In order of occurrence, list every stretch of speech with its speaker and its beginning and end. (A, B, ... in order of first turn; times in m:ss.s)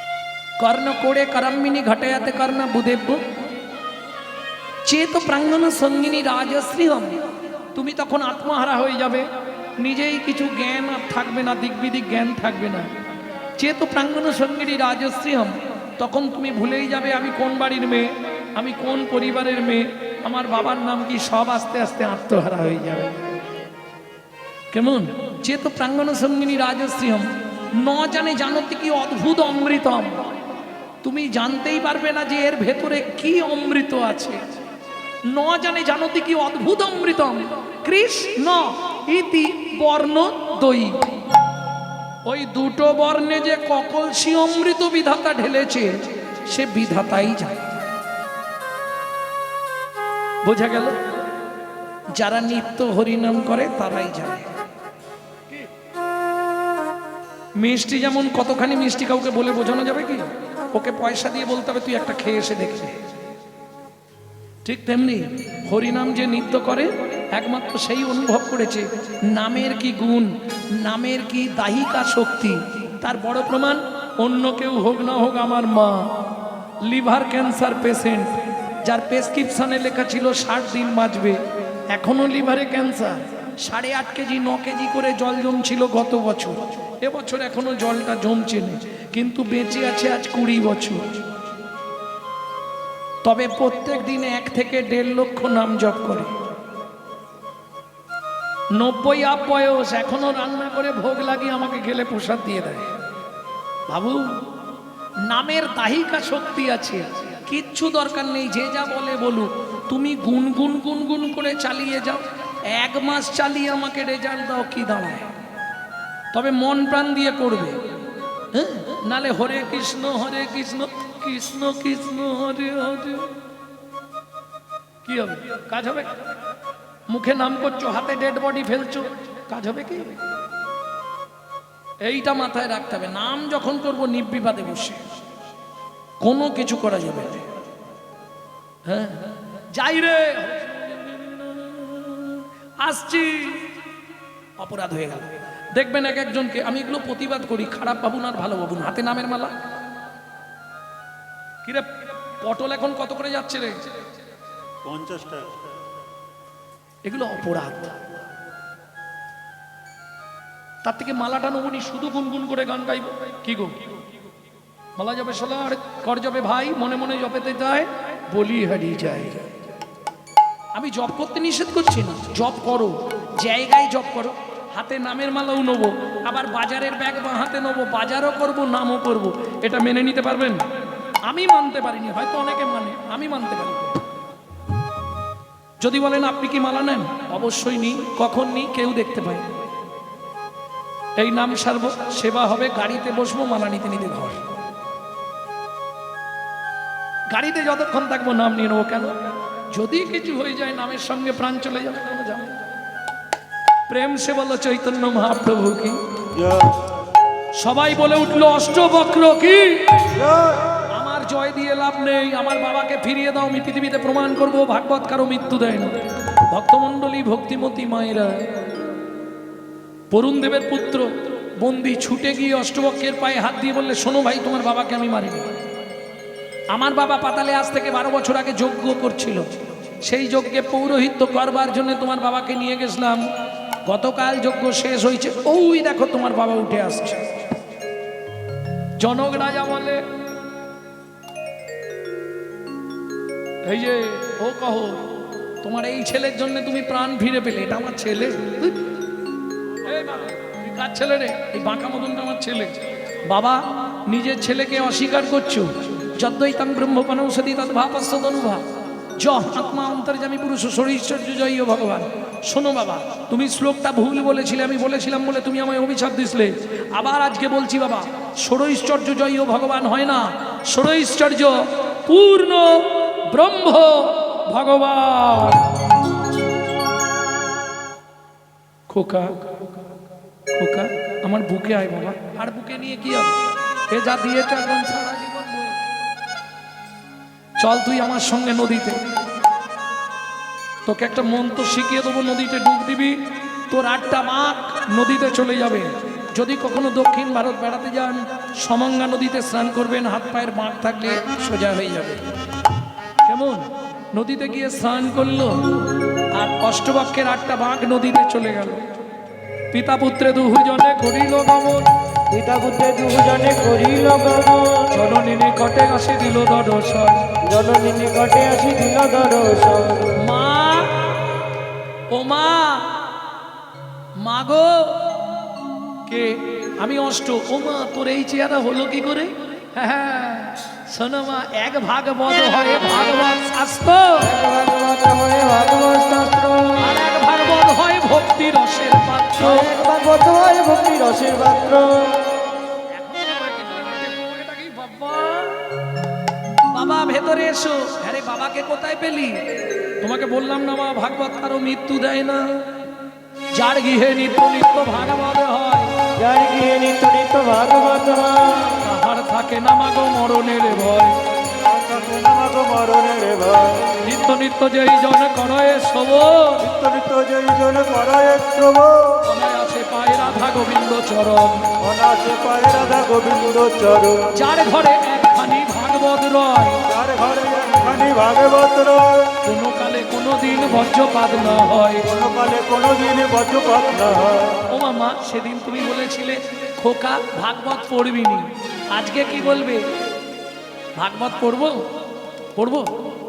0:00.6-0:03.2 A
0:04.8-0:07.2 A
0:07.7-0:12.9 A
0:13.6-0:23.2 A
0:24.7-0:30.2 A
0:31.0-0:34.4 A
0:35.2-0:41.0 A
0:42.2-0:47.8 A
0:50.4-0:51.0 A
0:52.1-0:54.5 A
0:57.6-1:03.0 A
1:04.6-1:16.2 A
1:16.8-1:31.1 A
1:33.2-1:36.3 A
1:38.7-1:42.9 A
1:43.9-1:44.4 A
1:45.2-1:55.3 A
1:56.3-1:57.8 A
1:58.5-2:03.3 A
2:05.0-2:06.1 A
2:07.1-2:10.2 A
2:12.0-2:15.0 A
2:16.2-2:17.5 A
2:18.8-2:23.7 A
2:24.6-2:29.6 A
2:31.6-2:33.8 A
2:34.8-2:35.6 B
2:37.0-2:38.0 A
2:40.8-2:43.9 A
2:45.0-2:49.5 A
2:50.7-3:00.6 A
3:01.2-3:04.0 A
3:05.8-3:09.5 A
3:11.2-3:14.4 A
3:17.3-3:19.2 A
3:19.7-3:22.6 A
3:23.9-3:26.0 A
3:26.3-3:26.7 B
3:27.5-3:30.1 A
3:30.1-3:30.8 B
3:30.9-3:38.5 A
3:40.1-3:45.5 A
3:46.7-3:53.2 A
3:53.8-3:57.4 A
3:59.0-4:00.0 A
4:03.6-4:08.9 A
4:09.8-4:18.6 A
4:19.2-4:35.7 A
4:38.9-4:39.5 A
4:40.5-4:45.8 A
4:47.6-4:49.0 A
4:50.8-5:02.3 A
5:03.2-5:05.8 A
5:06.3-5:08.8 A
5:09.7-5:11.9 A
5:12.3-5:14.9 C
5:14.9-5:17.3 A
5:17.4-5:20.1 C
5:20.1-5:21.1 A
5:22.1-5:23.1 A
5:24.2-5:25.2 A
5:26.0-5:34.3 A
5:34.2-5:37.0 C
5:36.8-5:39.7 A
5:39.4-5:42.2 C
5:42.9-5:45.6 A
5:46.7-5:49.5 A
5:50.0-5:52.8 A
5:53.5-5:55.9 A
5:56.2-5:58.8 C
5:58.8-6:01.2 A
6:01.5-6:03.9 B
6:04.0-6:06.6 A
6:06.6-6:09.2 B
6:09.2-6:11.7 A
6:11.8-6:14.2 B
6:14.3-6:16.8 A
6:16.9-6:19.3 B
6:19.4-6:22.0 A
6:22.1-6:24.6 B
6:24.7-6:29.9 A
6:31.0-6:31.9 A
6:32.5-6:33.0 A